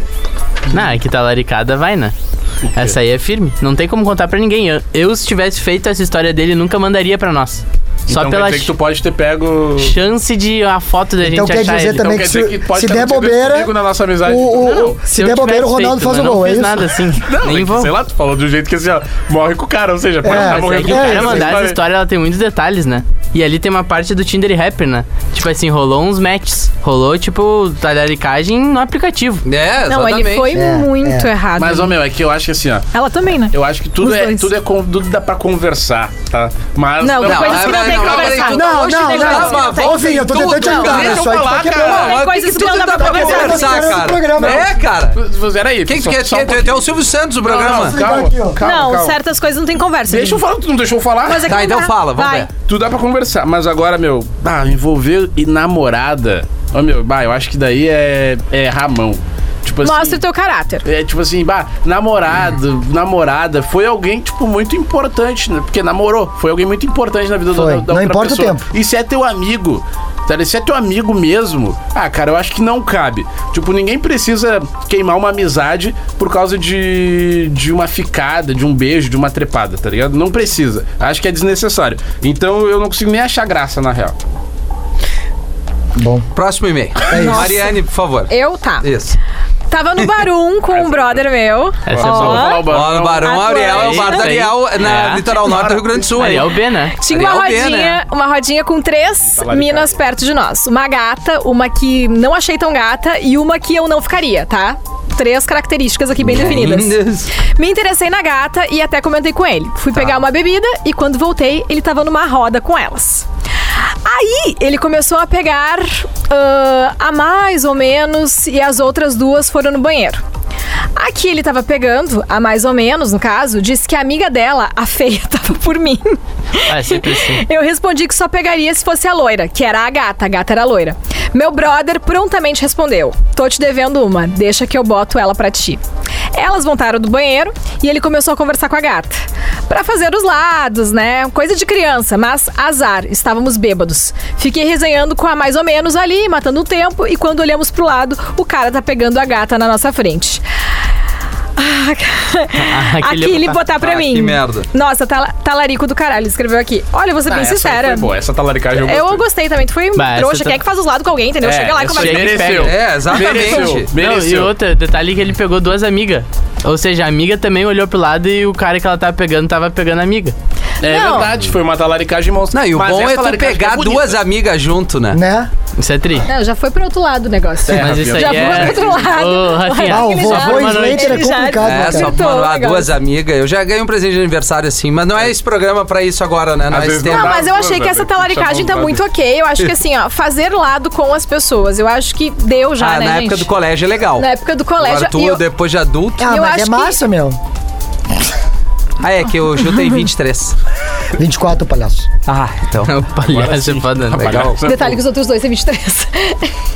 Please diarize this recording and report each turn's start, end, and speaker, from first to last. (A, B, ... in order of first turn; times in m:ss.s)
0:00.7-0:02.1 A
0:02.7-0:02.9 B
0:02.7-0:08.7 A
0:08.1-0:10.0 B
0:09.8-0:12.1 A
0:11.2-0:13.7 C
0:11.9-0:15.0 B
0:14.2-0:16.9 C
0:14.6-0:17.9 A
0:17.2-0:21.8 B
0:20.2-0:21.6 C
0:20.2-0:29.4 A
0:29.4-0:30.5 D
0:29.8-0:32.0 E
0:30.5-0:31.3 C
0:31.6-0:32.9 B
0:32.9-0:34.5 E
0:33.5-0:38.7 B
0:37.0-0:41.1 E
0:37.2-0:45.2 D
0:38.5-0:42.1 C
0:40.5-0:43.7 B
0:41.8-0:44.0 E
0:43.0-0:44.7 C
0:44.4-0:46.8 B
0:45.8-0:48.0 D
0:47.4-0:49.2 B
0:47.6-0:48.6 C
0:48.6-0:50.4 E
0:50.1-0:51.5 B
0:51.2-0:52.5 E
0:51.4-0:52.5 D
0:52.6-1:00.2 B
0:59.8-1:00.8 E
1:00.8-1:24.2 B
1:07.5-1:08.6 C
1:26.0-1:26.2 C
1:26.3-1:29.2 D
1:27.1-1:27.6 C
1:27.2-1:27.7 E
1:28.3-1:28.9 E
1:29.7-1:34.4 E
1:30.7-1:31.3 B
1:31.9-1:32.6 A
1:31.9-1:33.7 B
1:32.6-1:38.0 D
1:33.7-1:35.4 A
1:35.3-1:36.0 B
1:36.1-1:37.0 A
1:37.0-1:53.2 E
1:39.3-1:40.0 B
1:46.2-1:47.3 D
1:54.0-2:00.2 E
2:01.0-2:15.8 E
2:06.7-2:07.4 A
2:16.3-2:30.4 E
2:31.6-2:38.1 E
2:32.6-2:33.6 A
2:33.8-2:34.7 D
2:37.3-2:39.2 B
2:38.7-2:43.7 E
2:40.0-2:40.6 A
2:41.4-2:44.5 B
2:41.8-2:42.8 A
2:42.6-2:43.9 D
2:44.0-2:50.3 A
2:50.8-2:54.2 B
2:50.8-2:51.3 E
2:52.5-2:55.2 D
2:55.1-2:55.5 C
2:55.8-2:56.3 A
2:56.2-3:02.9 E
2:57.6-2:59.1 B
2:57.7-3:01.3 A
2:59.8-3:02.2 C
3:01.6-3:07.4 D
3:06.7-3:09.0 B
3:07.0-3:13.5 E
3:12.8-3:14.3 D
3:14.2-3:15.4 E
3:14.8-3:16.2 D
3:16.2-3:17.4 C
3:16.2-3:17.0 E
3:19.0-3:20.6 D
3:21.2-3:22.1 C
3:22.2-3:22.9 D
3:22.8-3:24.4 A
3:23.2-3:25.0 B
3:24.2-3:24.6 D
3:24.6-3:26.5 E